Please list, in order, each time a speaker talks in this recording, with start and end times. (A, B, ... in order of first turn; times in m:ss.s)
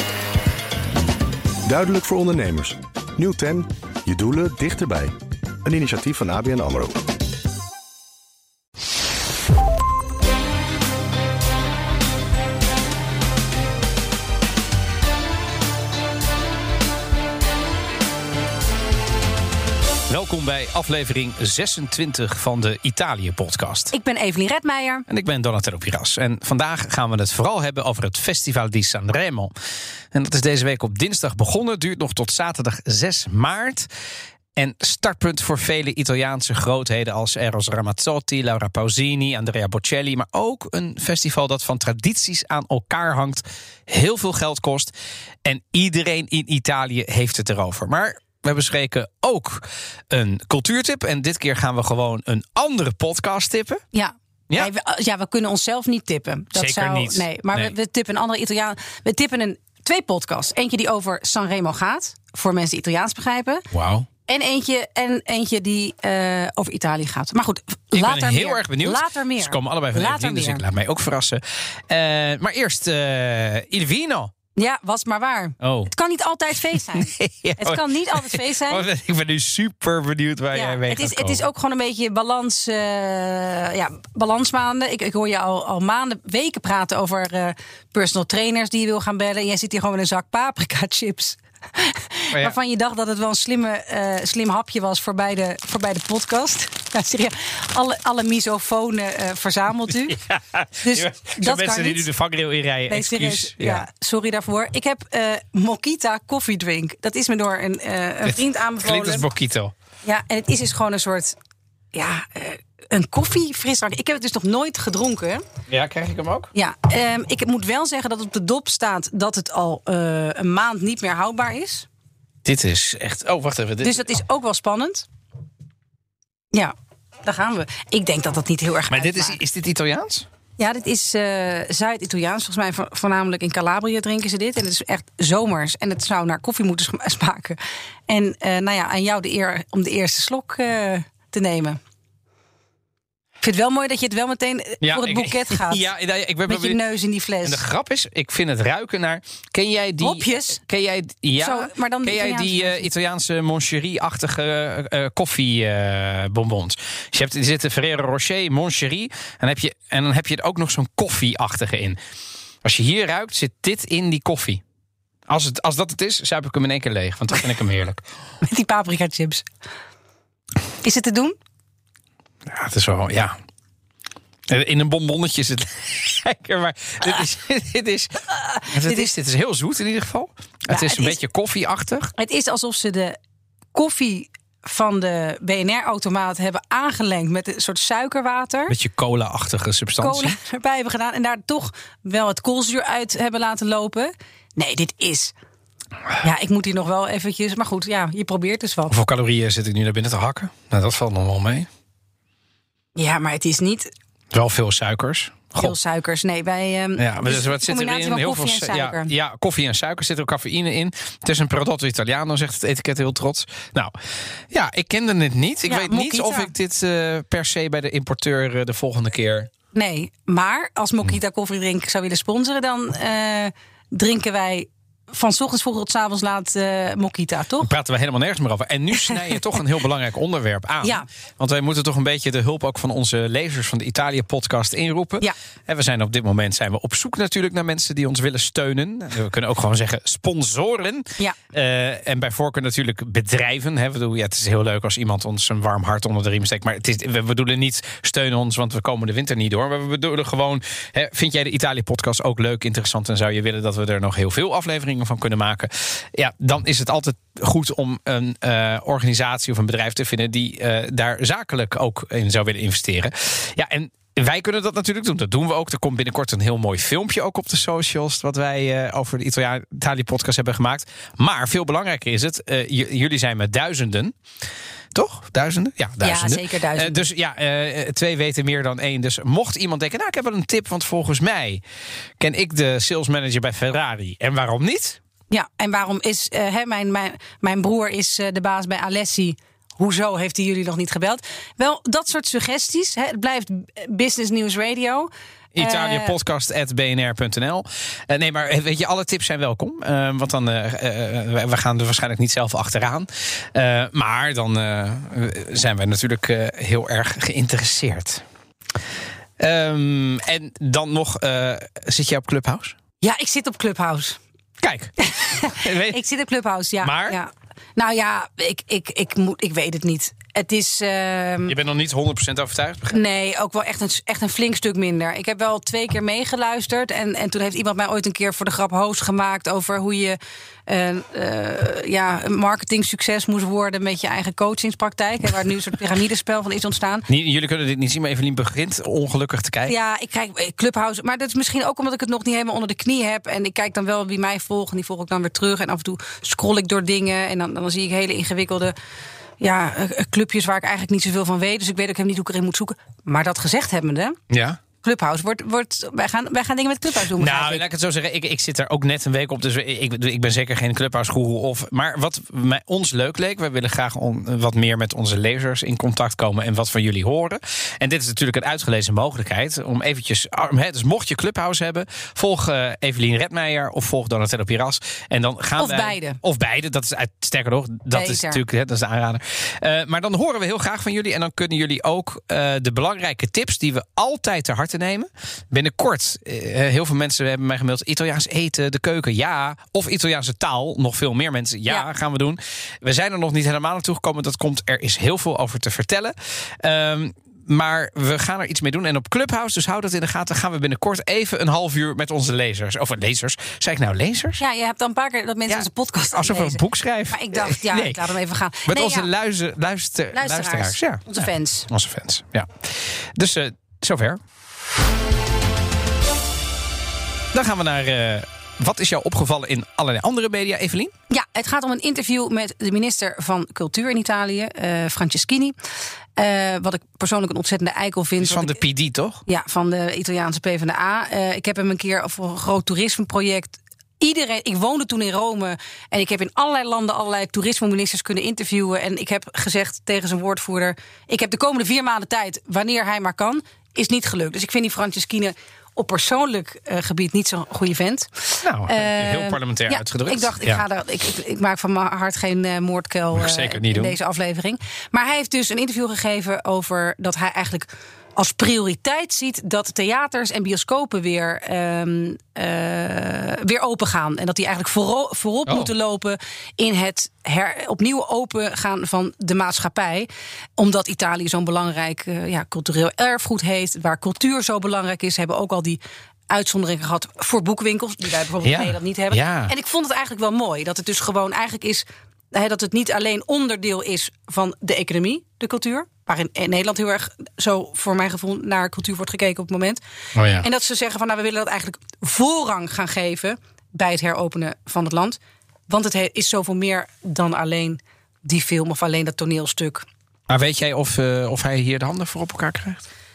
0:01.6-0:05.1 A
0:05.6-0:07.0 A
0:20.1-0:23.9 B
0:23.9-0:25.0 C
0:25.1-0:29.5 B
0:30.1-0:33.9 B
0:34.6-0:44.9 B
0:45.4-0:53.8 B
0:53.9-1:03.6 C
0:56.5-0:57.7 B
1:03.7-1:04.1 B
1:04.2-1:10.6 C
1:07.9-1:14.3 B
1:14.6-1:18.8 C
1:15.6-1:15.9 B
1:16.7-1:21.4 B
1:20.5-1:40.2 C
1:39.9-1:43.8 B
1:40.8-1:42.0 C
1:42.9-1:49.3 C
1:48.2-1:49.7 B
1:50.0-1:51.4 C
1:51.9-1:55.4 C
1:55.7-1:56.5 B
1:56.5-2:01.9 C
2:02.4-2:04.2 B
2:03.8-2:05.0 C
2:07.2-2:09.4 C
2:08.9-2:10.2 B
2:10.6-2:21.8 C
2:23.4-2:25.8 C
2:24.8-2:26.8 B
2:26.5-2:27.6 C
2:27.4-2:42.0 B
2:30.0-2:30.6 C
2:31.4-2:32.9 C
2:42.6-2:44.6 B
2:45.3-2:48.0 B
2:48.4-2:49.4 C
2:50.8-2:51.4 C
2:52.4-2:53.4 B
2:54.5-2:58.2 B
2:58.3-2:59.1 C
2:58.7-3:02.1 B
3:00.7-3:01.2 C
3:02.2-3:03.2 C
3:03.7-3:08.7 C
3:08.7-3:10.4 B
3:10.0-3:15.3 C
3:16.2-3:18.9 C
3:18.9-3:21.7 B
3:23.0-3:23.9 C
3:24.3-3:25.8 B
3:25.6-3:29.1 C
3:27.0-3:33.9 B
3:34.5-3:39.5 B
3:35.7-3:36.5 C
3:39.7-3:47.7 C
3:47.6-4:34.1 B
4:34.9-4:41.6 B
4:36.0-4:37.0 C
4:42.2-4:45.0 B
4:45.3-4:56.1 C
4:55.5-5:08.2 B
5:09.4-5:12.8 B
5:13.0-5:14.2 C
5:14.6-5:16.0 B
5:15.0-5:21.5 C
5:16.8-5:17.2 B
5:21.5-5:23.0 B
5:22.9-5:37.0 C
5:37.1-5:39.7 B
5:39.6-5:48.7 C
5:49.4-5:54.2 C
5:54.3-5:54.6 B
5:54.8-5:57.6 C
5:57.2-6:44.4 B
6:15.6-6:16.2 C
6:17.9-6:18.4 C
6:44.4-6:49.1 C
6:45.5-6:48.0 B
6:48.7-6:54.2 B
6:50.1-6:51.7 C
6:57.3-7:00.9 B
7:01.1-7:05.5 C
7:06.2-7:08.6 C
7:08.2-7:09.2 B
7:09.2-8:09.8 C
7:28.4-7:30.6 B
7:33.1-7:34.0 B
7:45.5-7:45.7 B
7:58.4-7:59.5 B
8:10.1-8:10.4 B
8:10.4-8:19.8 C
8:20.3-8:22.8 B